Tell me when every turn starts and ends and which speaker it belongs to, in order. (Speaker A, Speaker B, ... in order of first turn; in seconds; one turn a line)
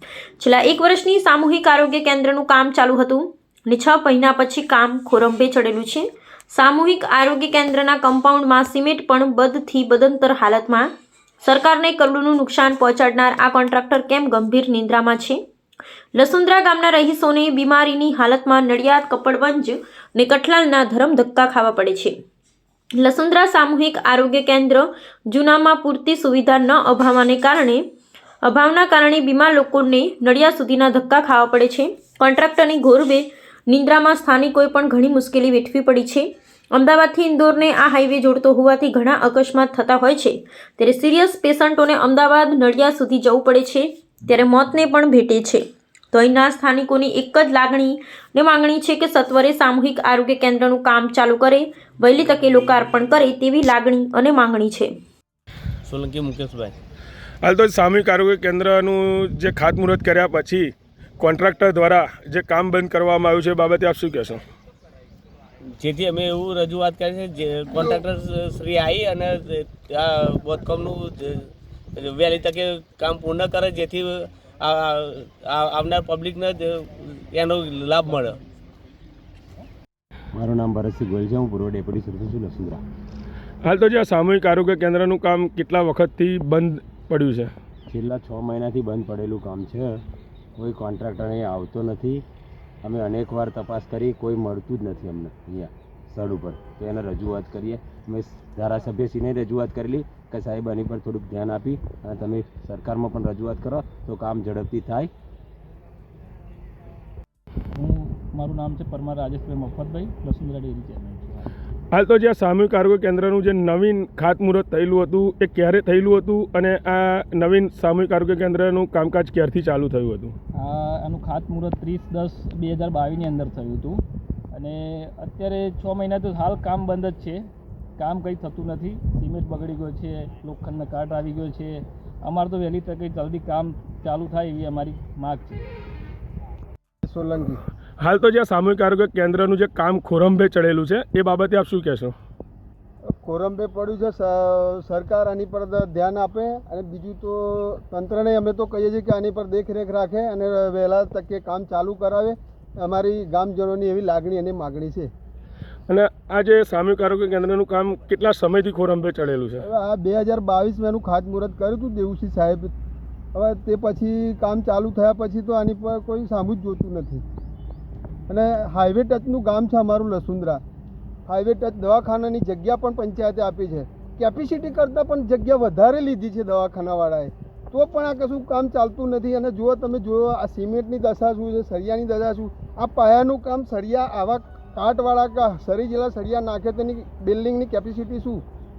Speaker A: 0.4-10.9
Speaker A: 11.4-15.4
Speaker A: 16.1-22.1
Speaker A: 23.0-27.8
Speaker A: 28.4-54.9
Speaker B: 55.9-56.8
Speaker C: 57.4-64.4
Speaker B: 65.8-71.5
Speaker B: 72.0-78.4
Speaker D: 80.3-82.8
Speaker C: 83.6-87.5
Speaker D: 87.9-90.0
Speaker D: 90.5-92.2
Speaker D: 92.8-105.1
Speaker E: 107.8-111.5
Speaker C: 111.9-120.3
Speaker E: 120.6-127.4
Speaker E: 128.0-135.6
Speaker F: 137.0-137.6
Speaker C: 138.0-142.1
Speaker F: 143.2-155.1
Speaker C: 155.9-159.6
Speaker F: 159.6-162.7
Speaker F: 163.3-167.2
Speaker F: 168.3-170.6
Speaker F: 171.3-188.4